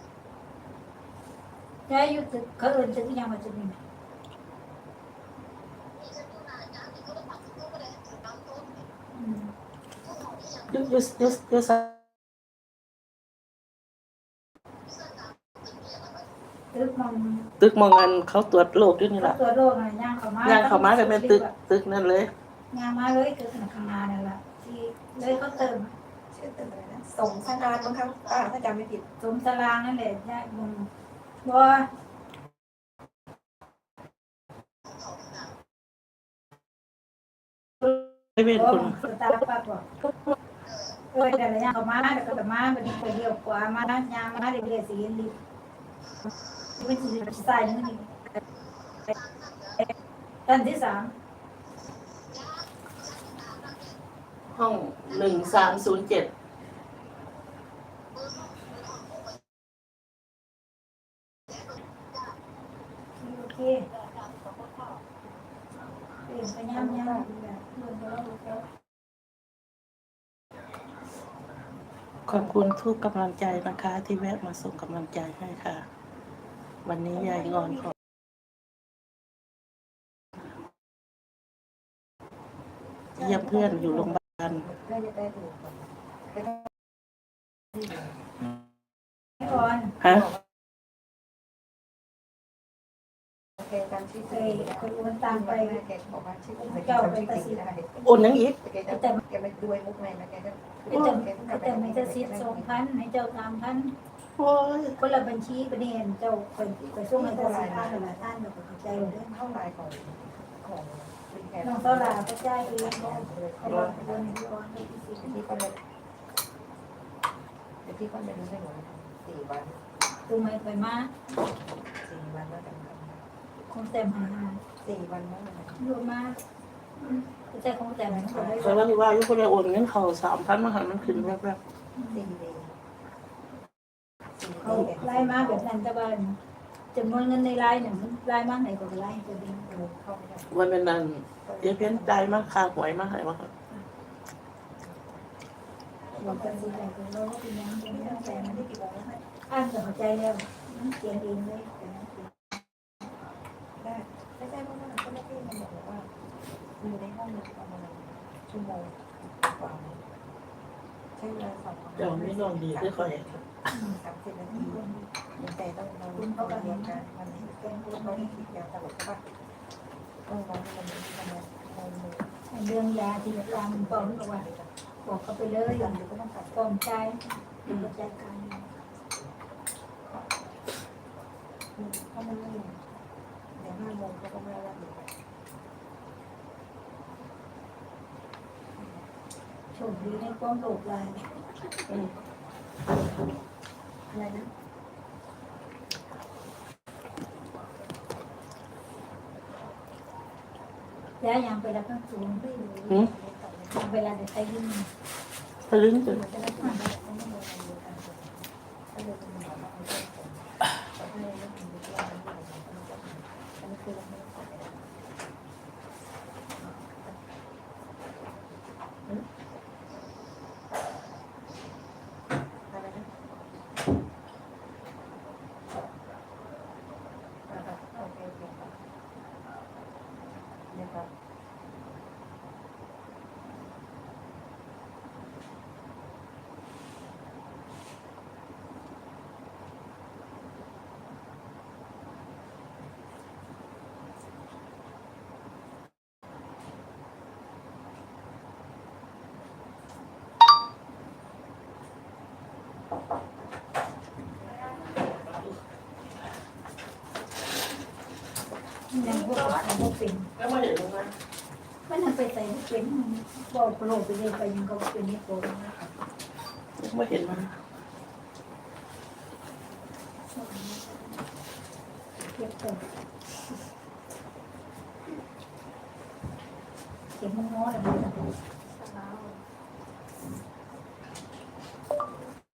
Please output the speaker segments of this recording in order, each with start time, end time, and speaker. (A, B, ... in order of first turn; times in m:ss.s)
0:01.9-0:03.8 A
0:09.1-0:09.5 A
0:10.6-0:12.0 B
0:16.7-0:17.5 A
0:17.6-0:19.4 B
0:19.2-0:21.5 A
0:20.4-0:22.3 B
0:22.7-0:25.9 A
0:26.3-0:29.1 C
0:27.2-0:28.0 A
0:29.2-0:30.9 A
0:31.4-0:31.9 A
0:38.4-0:38.9 B
0:38.5-0:39.9 A
0:41.1-0:45.4 A
0:46.8-0:48.1 A
0:50.4-0:51.1 A
0:54.5-0:56.3 B
1:03.2-1:03.9 A
1:06.2-1:08.6 A
1:06.7-1:07.3 C
1:12.3-1:15.8 B
1:16.8-1:17.9 B
1:17.2-1:17.5 C
1:23.2-1:26.7 C
1:23.2-1:24.6 B
1:27.7-1:28.1 C
1:29.4-1:29.9 A
1:29.4-1:30.3 C
1:30.0-1:30.3 B
1:33.6-1:42.8 C
1:34.3-1:35.8 A
1:36.6-1:37.6 A
1:38.0-1:38.6 B
1:38.9-1:39.2 A
1:40.9-1:43.9 A
1:44.4-1:45.0 B
1:45.0-1:49.2 A
1:47.0-1:48.3 C
1:48.8-1:54.4 C
1:51.6-1:55.4 A
1:55.2-1:55.8 C
1:57.8-1:59.8 C
2:00.3-2:01.1 A
2:02.0-2:03.2 C
2:03.7-2:04.6 A
2:04.8-2:05.8 C
2:05.8-2:06.4 A
2:07.0-2:08.8 A
2:08.0-2:08.9 C
2:08.6-2:11.6 B
2:12.0-2:12.3 A
2:12.1-2:12.8 C
2:14.4-2:15.7 C
2:14.6-2:16.4 A
2:16.9-2:19.9 A
2:19.7-2:20.5 C
2:20.5-2:23.5 B
2:21.4-2:22.4 C
2:26.1-2:26.9 C
2:26.2-2:28.6 A
2:27.8-2:29.2 C
2:29.5-2:32.3 A
2:33.8-2:36.1 C
2:36.8-2:40.0 C
2:41.2-2:44.8 C
2:42.0-2:43.4 B
2:43.7-2:45.1 A
2:45.4-2:49.2 C
2:46.1-2:48.4 A
2:50.3-2:52.3 C
2:52.5-2:54.5 A
2:53.2-2:54.7 C
2:55.0-2:56.0 A
2:55.7-2:56.6 C
2:56.5-2:58.7 A
2:57.7-2:57.9 C
3:01.8-3:02.8 C
3:03.6-3:05.1 C
3:09.7-3:11.2 A
3:14.1-3:14.5 C
3:21.2-3:23.0 A
3:22.8-3:23.8 C
3:23.7-3:24.9 A
3:25.7-3:26.2 B
3:26.0-3:34.8 C
3:36.6-3:37.2 C
3:42.7-3:43.1 C
3:47.5-3:48.8 C
3:50.7-3:51.1 C
4:15.1-4:15.6 B
4:18.9-4:20.3 A
4:19.2-4:19.5 B
4:20.4-4:21.1 B
4:21.9-4:25.9 A
4:26.8-4:27.5 B
4:30.3-4:31.2 A
4:32.3-4:32.8 A
4:37.1-4:38.3 A
4:38.8-4:39.4 C